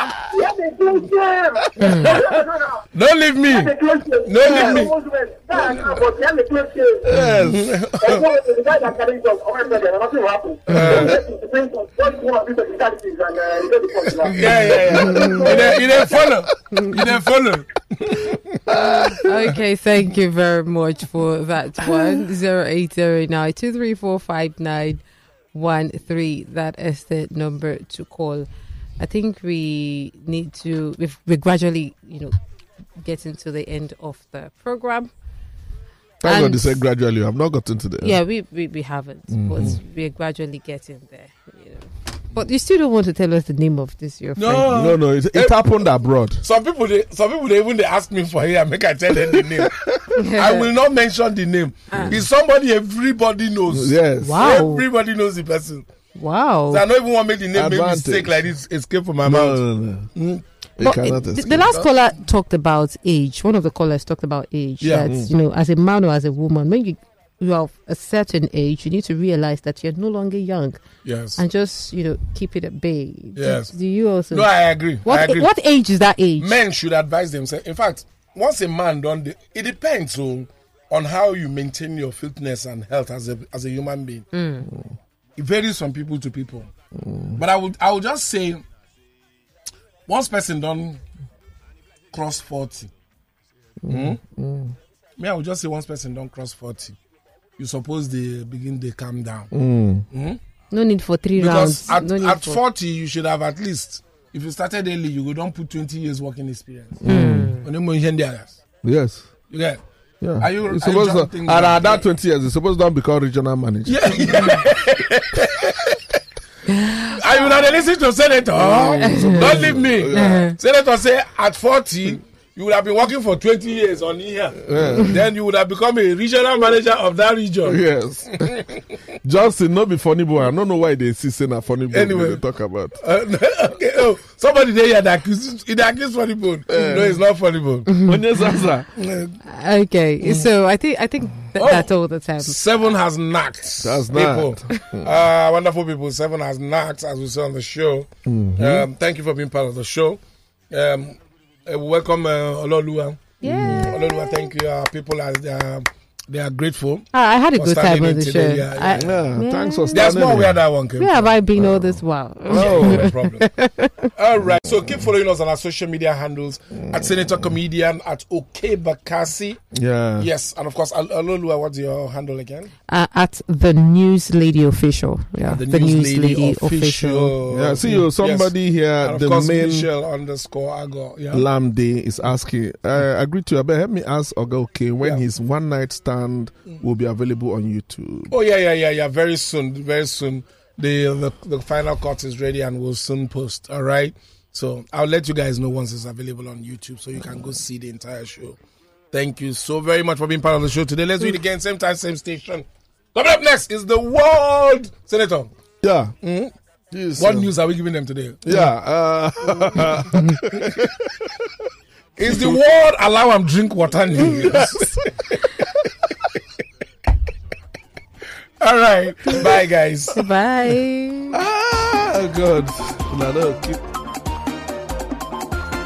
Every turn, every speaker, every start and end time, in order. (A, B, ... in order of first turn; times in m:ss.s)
0:00.2-0:02.8 A
0:01.8-0:02.1 B
0:03.0-0:03.7 C
0:03.5-0:07.2 A
0:04.3-0:04.9 C
0:04.5-0:04.8 D
0:07.1-0:07.8 D
0:07.5-0:08.2 C
0:08.0-0:16.1 A
0:10.7-0:11.0 B
0:10.7-0:11.2 C
0:14.3-0:18.4 C
0:14.4-0:16.3 D
0:15.0-0:15.4 B
0:18.7-0:19.4 D
0:19.2-0:25.0 B
0:25.5-0:28.5 B
0:29.0-0:32.4 B
0:33.0-0:35.1 B
0:36.2-0:38.2 D
0:36.2-0:36.8 B
0:38.0-0:44.7 B
0:39.3-0:39.8 D
0:44.4-0:45.6 C
0:44.5-0:46.4 D
0:46.4-0:55.9 C
0:49.4-0:50.0 D
0:50.2-0:50.7 B
0:51.9-0:52.2 B
0:53.7-0:54.6 D
0:54.2-0:54.8 B
0:56.2-0:56.8 B
0:56.7-0:59.6 C
0:57.5-0:58.4 D
0:59.2-1:00.1 D
1:00.2-1:00.4 C
1:00.8-1:01.7 D
1:00.8-1:10.8 B
1:04.8-1:05.1 C
1:05.0-1:05.3 D
1:11.0-1:11.4 C
1:11.4-1:14.5 B
1:13.4-1:13.7 C
1:14.3-1:15.5 C
1:15.0-1:16.5 B
1:16.4-1:24.3 C
1:24.3-1:24.7 B
1:24.6-1:25.0 D
1:25.4-1:26.7 C
1:26.9-1:27.4 D
1:27.4-1:28.6 C
1:30.1-1:31.0 C
1:32.1-1:32.9 C
1:33.8-1:34.8 D
1:33.9-1:34.2 C
1:35.2-1:37.0 C
1:37.6-1:39.5 C
1:39.5-1:40.0 D
1:40.1-1:40.4 C
1:40.7-1:42.6 B
1:41.4-1:47.1 C
1:47.0-1:47.6 D
1:47.1-1:47.6 B
1:47.6-1:48.6 C
1:48.8-1:49.3 D
1:49.5-1:49.8 C
1:50.2-1:54.6 D
1:50.4-1:52.0 C
1:53.9-1:56.0 C
1:56.7-1:57.2 B
1:57.1-2:08.8 C
1:58.7-2:00.4 D
1:58.7-2:00.6 B
2:04.7-2:05.2 D
2:07.6-2:08.6 D
2:09.2-2:13.0 D
2:11.9-2:12.4 C
2:13.0-2:18.0 C
2:16.7-2:17.2 D
2:18.0-2:18.9 D
2:19.0-2:19.4 C
2:19.5-2:22.6 B
2:21.6-2:39.2 C
2:23.8-2:25.1 D
2:28.3-2:28.9 D
2:33.4-2:34.5 B
2:33.5-2:33.9 D
2:37.1-2:40.2 B
2:38.9-2:40.6 D
2:39.9-2:41.3 C
2:41.0-2:44.1 B
2:41.6-2:43.1 D
2:42.5-2:43.5 C
2:44.2-2:49.6 C
2:46.9-2:47.4 D
2:49.7-2:50.3 D
2:50.2-2:52.7 C
2:52.9-2:57.3 B
2:55.5-3:01.5 C
2:57.5-2:59.9 D
3:01.3-3:08.3 D
3:08.3-3:18.6 C
3:19.1-3:25.5 C
3:25.8-3:26.1 D
3:26.2-3:26.5 C
3:26.9-3:27.5 D
3:27.2-3:28.6 C
3:28.4-3:31.1 D
3:32.2-3:35.3 C
3:32.2-3:32.6 D
3:34.5-3:34.9 B
3:38.6-3:40.2 C
3:40.1-3:41.4 B
3:41.3-3:43.8 D